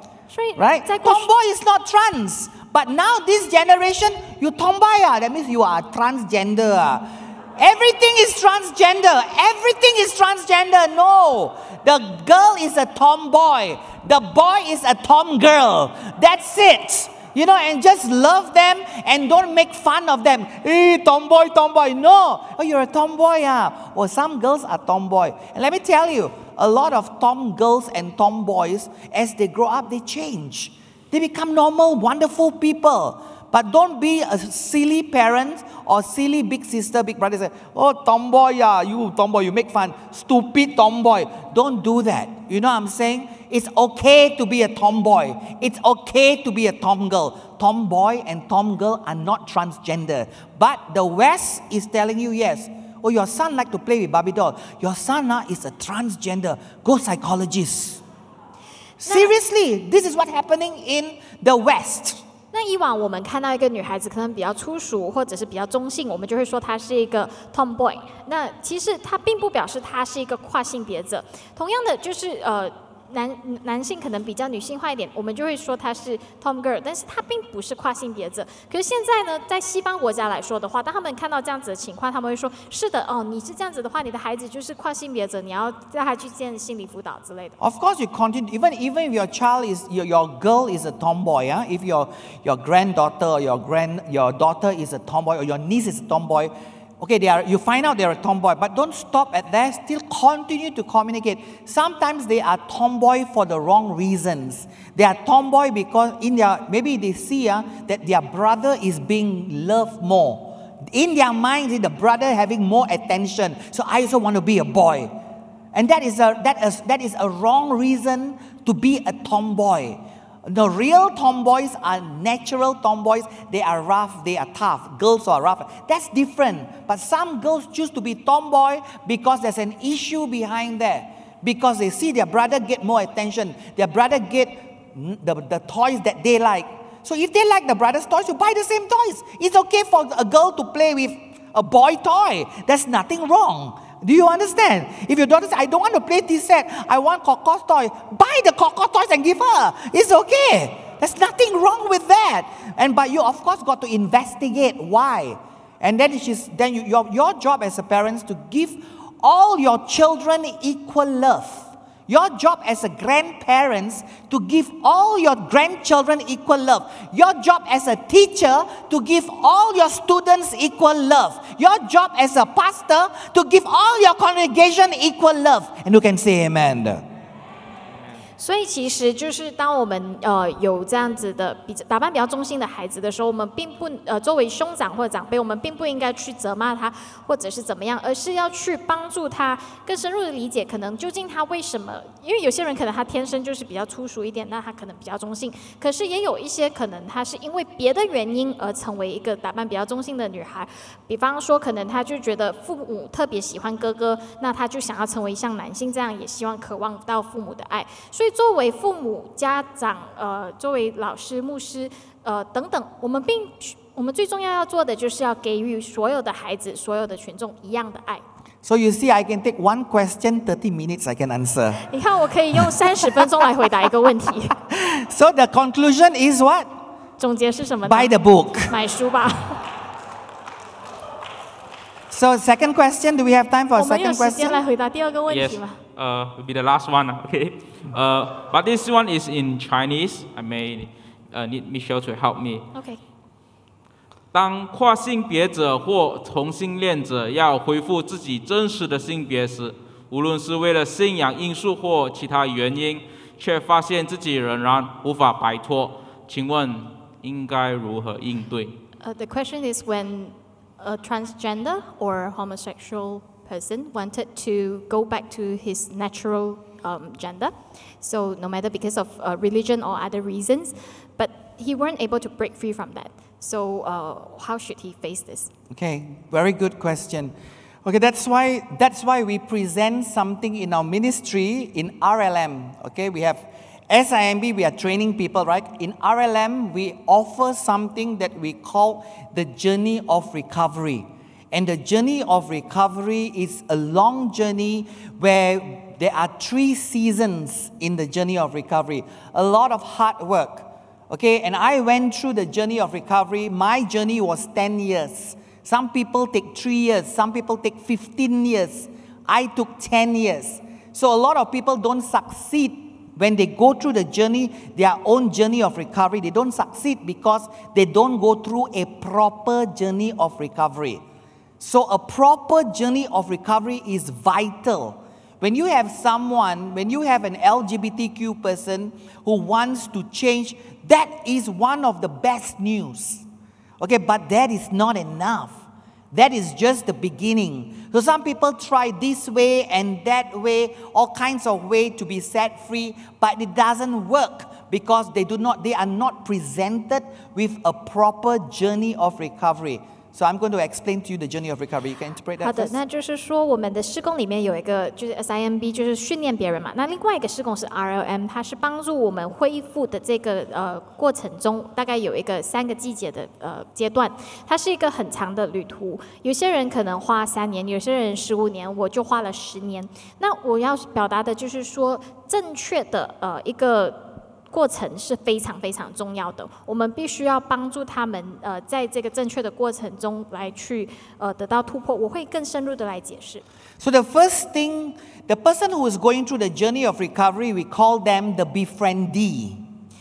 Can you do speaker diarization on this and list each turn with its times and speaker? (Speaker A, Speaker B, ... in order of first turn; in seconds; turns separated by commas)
Speaker A: 0.3-1.3, Speaker B: 0.6-58.0, Speaker B: 59.0-62.2, Speaker A: 59.1-59.3, Speaker A: 62.5-87.6, Speaker B: 87.6-115.1, Speaker B: 115.7-177.0, Speaker A: 178.4-218.2, Speaker B: 218.6-221.9, Speaker A: 221.8-224.5, Speaker B: 222.6-223.4, Speaker B: 224.7-226.7, Speaker A: 227.2-228.1, Speaker B: 227.8-228.7, Speaker A: 228.7-229.6, Speaker B: 232.1-234.6, Speaker A: 233.7-235.8, Speaker C: 235.3-242.7, Speaker A: 242.7-243.0, Speaker C: 244.3-258.8, Speaker A: 259.0-275.5, Speaker B: 275.7-277.3, Speaker B: 277.8-321.0, Speaker B: 321.6-333.2, Speaker B: 333.8-352.8, Speaker A: 352.4-383.4, Speaker B: 383.8-389.6